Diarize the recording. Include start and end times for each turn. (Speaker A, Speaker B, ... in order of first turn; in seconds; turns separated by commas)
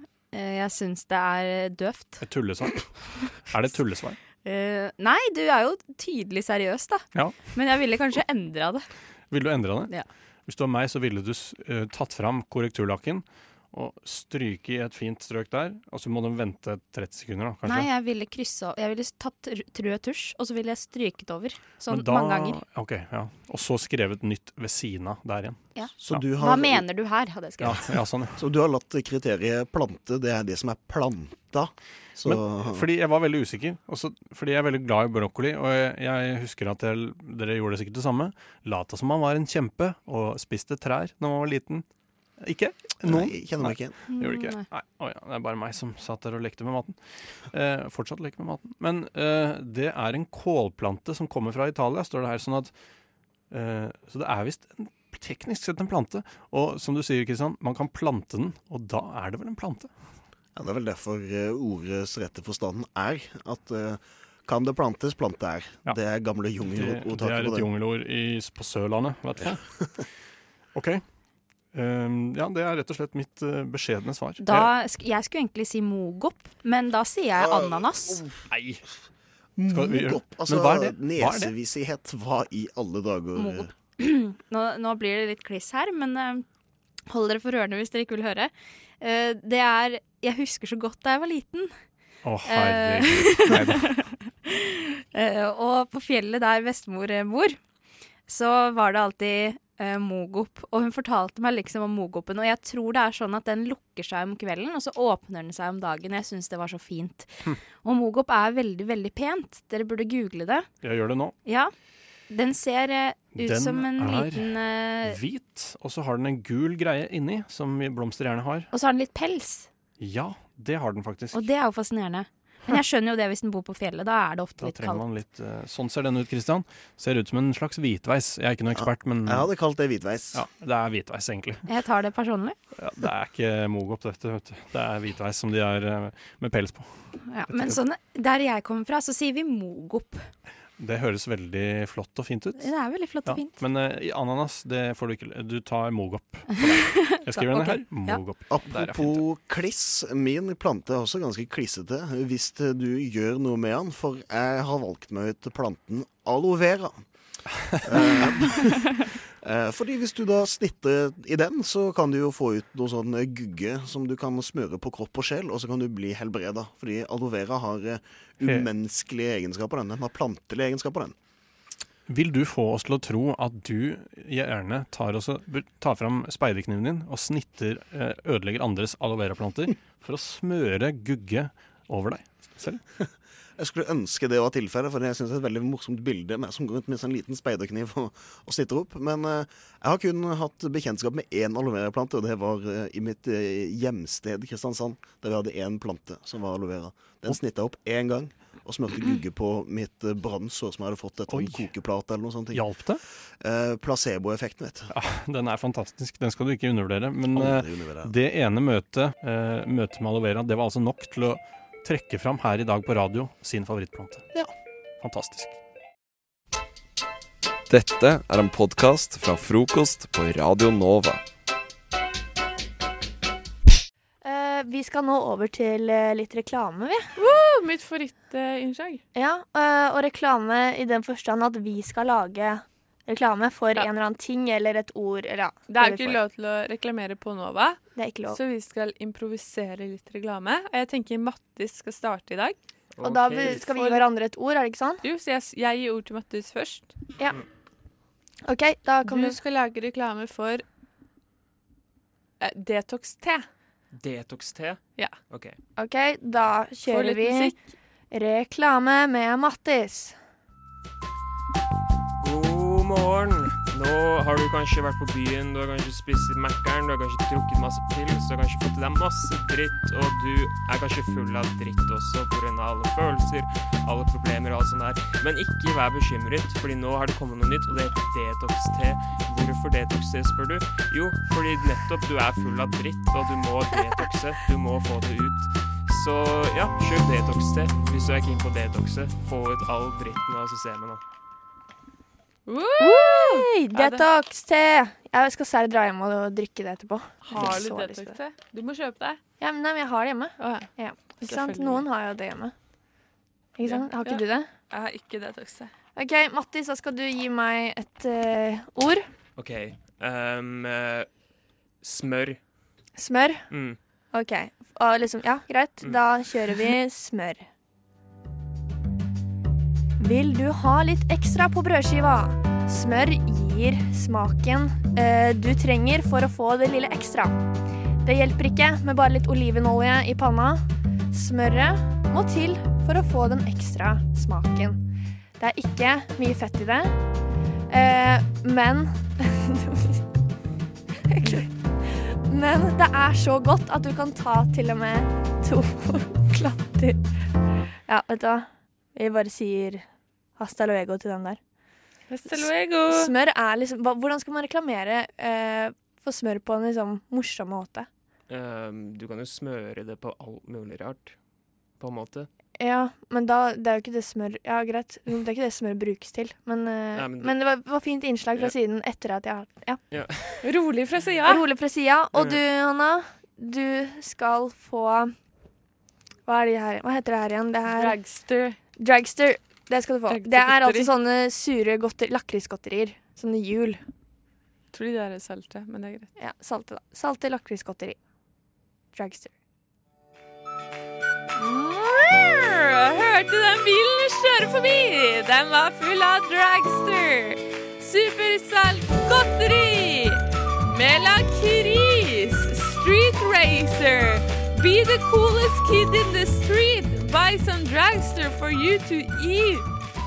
Speaker A: 0.3-2.2, Speaker B: 2.2-4.2, Speaker A: 4.4-8.9, Speaker B: 7.2-7.5, Speaker B: 9.3-9.9, Speaker B: 10.5-17.9, Speaker A: 17.6-22.6, Speaker B: 21.9-26.2, Speaker A: 25.8-27.9, Speaker C: 26.0-26.9, Speaker B: 27.6-28.4, Speaker C: 28.4-32.9, Speaker B: 32.2-41.9, Speaker B: 42.4-52.7, Speaker C: 43.0-44.0, Speaker A: 44.1-44.6, Speaker B: 53.5-59.9, Speaker C: 60.6-67.7, Speaker B: 66.6-69.6, Speaker B: 70.8-71.0, Speaker B: 71.7-74.7, Speaker A: 74.4-78.2, Speaker C: 77.4-78.3, Speaker B: 78.5-78.8, Speaker C: 79.6-83.7, Speaker B: 79.7-81.5, Speaker A: 83.4-86.5, Speaker A: 87.1-91.7, Speaker B: 92.2-94.0, Speaker A: 92.5-97.6, Speaker A: 98.3-110.7, Speaker B: 110.8-111.3, Speaker A: 111.5-111.7, Speaker A: 112.3-115.2, Speaker B: 113.3-118.7, Speaker A: 118.7-119.7, Speaker B: 120.0-121.5, Speaker A: 121.3-125.0, Speaker B: 124.6-129.5, Speaker C: 128.8-130.4, Speaker B: 130.3-131.7, Speaker A: 131.7-132.6, Speaker B: 132.8-137.8, Speaker A: 137.2-140.3, Speaker B: 140.8-142.7, Speaker A: 142.6-143.6, Speaker B: 143.2-149.2, Speaker A: 146.6-148.2, Speaker C: 148.5-157.0, Speaker B: 157.7-158.3, Speaker C: 157.8-171.2, Speaker B: 168.4-168.7, Speaker B: 172.1-182.8, Speaker C: 183.0-202.7, Speaker B: 201.3-201.7, Speaker B: 202.5-203.0, Speaker C: 203.4-204.9, Speaker B: 204.9-214.3, Speaker C: 207.3-208.1, Speaker B: 215.0-215.6, Speaker D: 217.7-221.2, Speaker E: 224.2-227.1, Speaker F: 227.2-229.0, Speaker E: 229.2-236.2, Speaker F: 235.7-242.6, Speaker E: 237.9-238.4, Speaker G: 243.0-243.5, Speaker E: 243.0-245.0, Speaker F: 243.1-244.1, Speaker F: 245.0-246.9, Speaker E: 248.4-249.4, Speaker F: 249.0-250.7, Speaker F: 252.4-253.5, Speaker G: 253.9-255.6, Speaker E: 255.8-257.5, Speaker F: 256.8-257.6, Speaker E: 258.1-260.2, Speaker G: 262.2-291.0, Speaker F: 292.5-294.1, Speaker E: 292.8-298.2, Speaker F: 297.2-299.2, Speaker E: 299.4-302.5, Speaker F: 300.4-301.9, Speaker E: 303.6-304.5, Speaker F: 303.6-305.7, Speaker E: 305.9-309.1, Speaker G: 309.4-311.1, Speaker G: 311.8-312.4, Speaker E: 313.0-313.5, Speaker G: 313.5-313.8, Speaker E: 314.1-317.5, Speaker E: 320.0-327.4, Speaker E: 328.0-334.8, Speaker E: 335.4-337.0, Speaker E: 337.7-340.0, Speaker E: 341.1-347.1, Speaker E: 347.9-349.9, Speaker E: 350.4-351.4, Speaker F: 352.1-353.1, Speaker E: 352.3-357.9, Speaker G: 358.3-361.2, Speaker G: 361.8-362.3, Speaker E: 362.6-369.8, Speaker G: 366.9-367.4, Speaker G: 369.9-370.4, Speaker F: 370.4-371.5, Speaker E: 371.2-375.1, Speaker G: 372.1-372.4, Speaker E: 376.3-378.0, Speaker F: 377.7-378.6, Speaker E: 378.8-383.8, Speaker F: 380.1-380.9, Speaker F: 384.7-386.1, Speaker E: 386.2-388.0, Speaker E: 388.9-389.3, Speaker F: 391.4-409.7